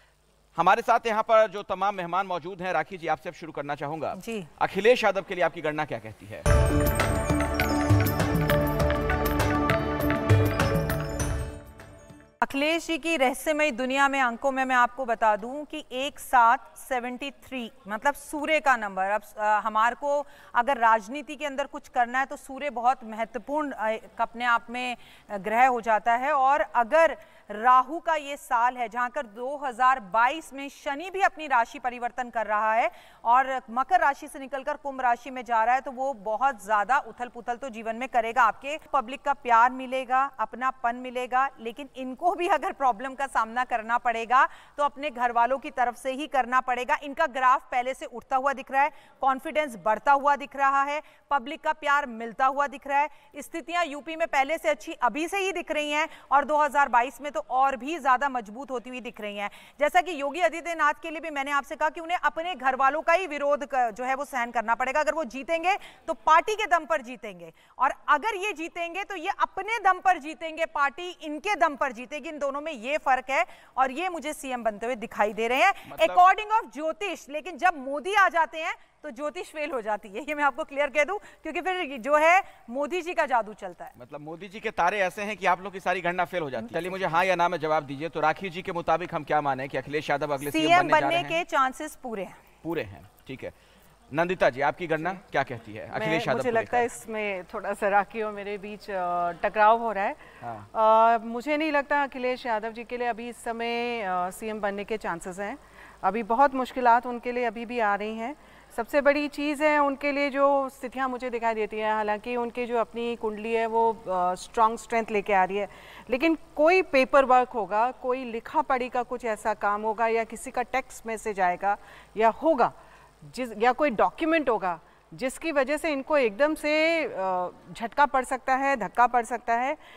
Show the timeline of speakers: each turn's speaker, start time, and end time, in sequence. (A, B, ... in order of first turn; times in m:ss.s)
0:00.5-0:06.4 A
0:04.2-0:04.5 B
0:12.4-1:23.9 B
1:15.8-1:16.2 A
1:24.0-1:31.4 A
1:26.6-1:27.1 B
1:30.4-1:32.4 B
1:32.6-1:33.5 A
1:34.1-1:36.9 A
1:35.9-1:40.2 C
1:40.4-1:40.7 A
1:40.7-2:02.7 C
2:03.2-2:09.8 C